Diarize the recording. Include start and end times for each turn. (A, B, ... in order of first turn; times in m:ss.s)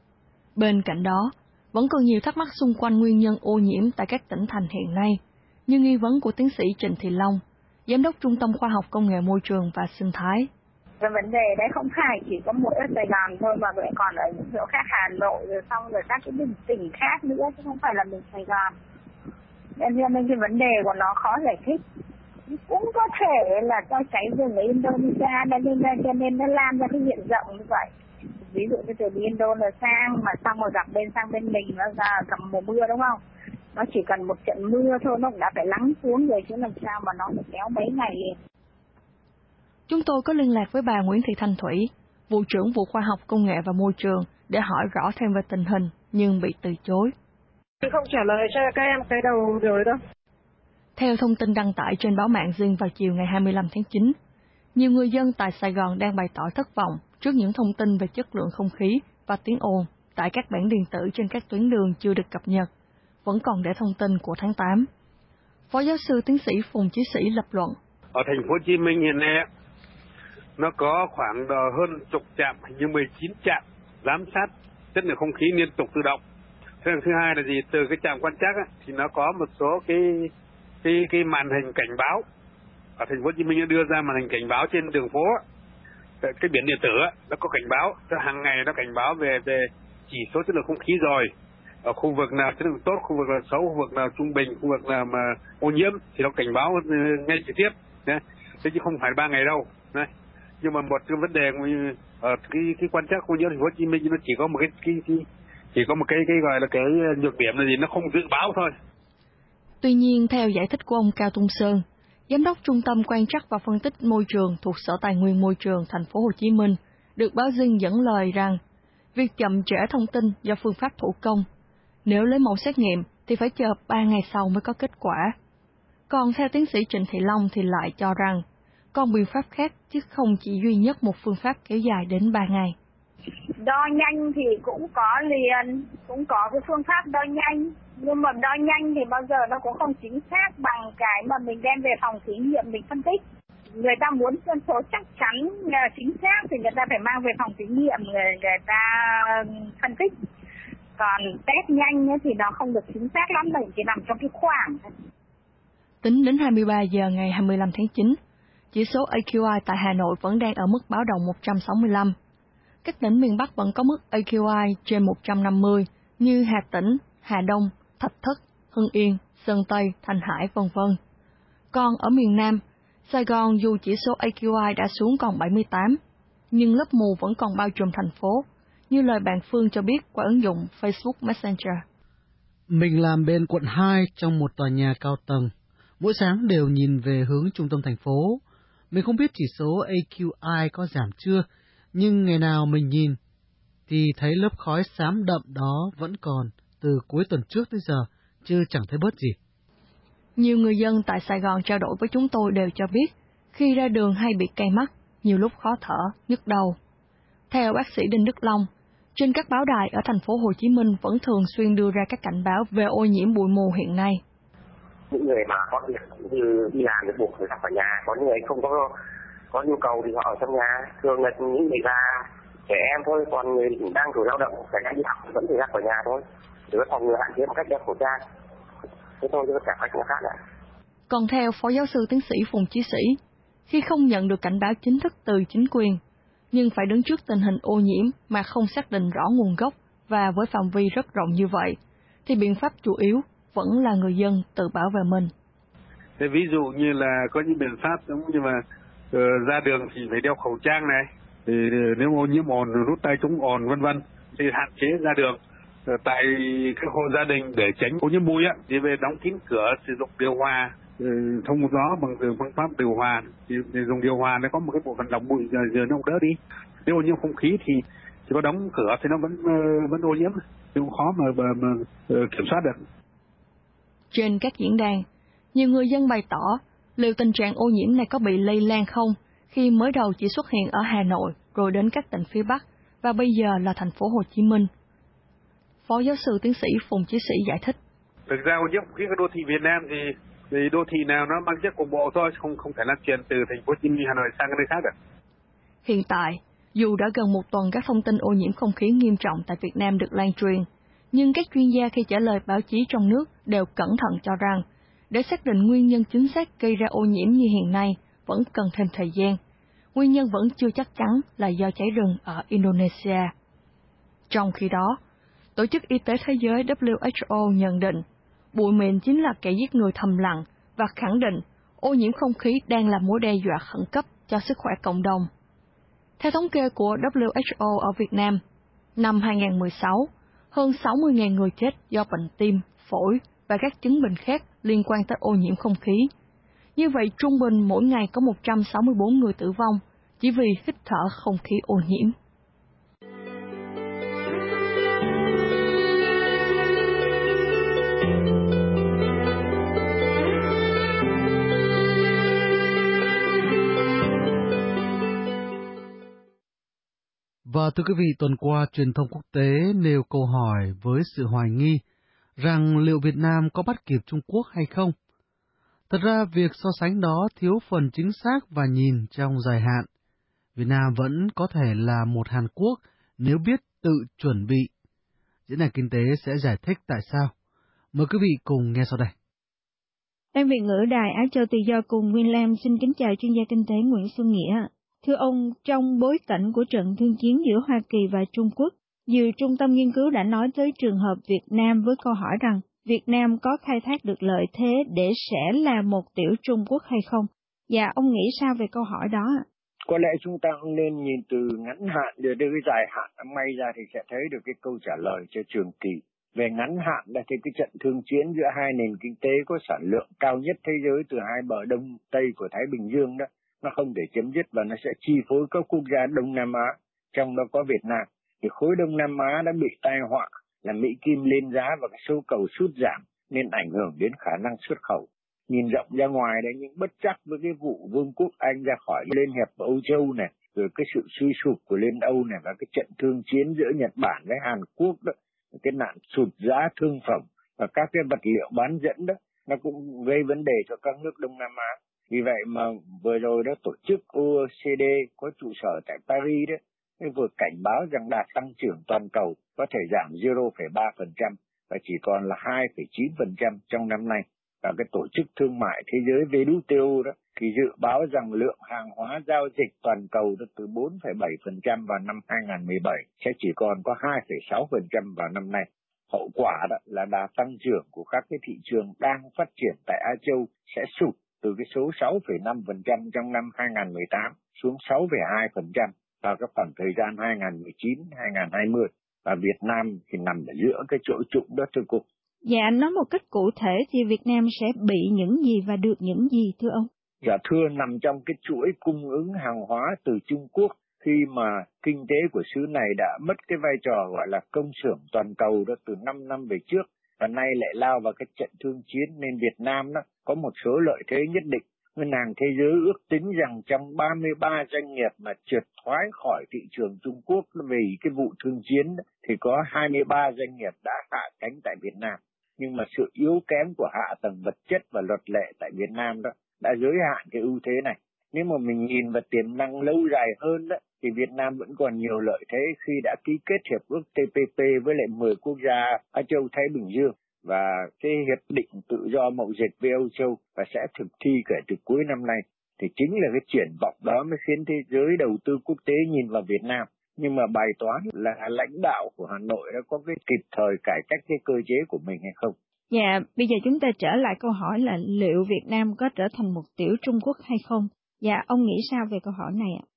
0:00.6-0:10.5 A
0:11.0-0:18.7 B
0:19.8-0:21.8 B
0:22.5-0:27.9 B
0:28.4-0:33.2 B
0:33.7-0:38.4 B
0:39.9-0:47.1 A
0:47.8-0:50.0 C
0:51.0-0:54.2 A
0:54.7-1:02.7 A
1:03.2-1:04.9 A
1:05.7-1:07.8 A
1:08.1-1:09.4 D
1:10.6-1:16.2 D
1:16.8-1:20.3 D
1:20.8-1:22.2 D
1:23.0-1:25.4 D
1:26.2-1:31.3 D
1:31.8-1:40.1 D
1:40.6-1:48.7 D
1:49.8-1:58.6 A
1:59.1-2:01.4 A
2:02.0-2:05.3 A
2:06.1-2:12.7 A
2:13.6-2:23.2 B
2:23.8-2:30.1 B
2:31.0-2:34.9 B
2:36.0-2:38.2 A
2:38.7-2:42.1 A
2:42.8-2:51.0 A
2:51.7-2:56.0 A
2:56.5-3:01.8 A
3:02.7-3:13.2 E
3:13.9-3:19.4 E
3:20.4-3:26.8 A
3:27.5-3:34.2 A
3:35.1-3:38.9 F
3:39.5-3:48.2 F
3:49.2-3:50.4 F
3:51.1-3:56.0 A
3:56.5-4:05.3 A
4:06.2-4:32.8 D
4:34.1-4:44.7 A
4:45.8-4:47.8 A
4:48.3-4:54.9 D
4:55.8-5:09.4 A
5:09.9-5:13.3 A
5:14.3-5:15.0 A
5:15.6-5:25.3 A
5:26.2-5:28.4 A
5:29.0-5:36.1 A
5:36.8-5:42.1 A
5:57.4-6:01.8 E
6:02.4-6:04.9 E
6:05.9-6:09.9 E
6:10.6-6:14.7 E
6:15.5-6:17.3 E
6:17.9-6:19.1 E
6:20.3-6:39.4 G
6:39.9-8:02.0 H
8:02.4-8:06.9 G
8:07.2-9:02.6 H
9:02.9-9:09.8 G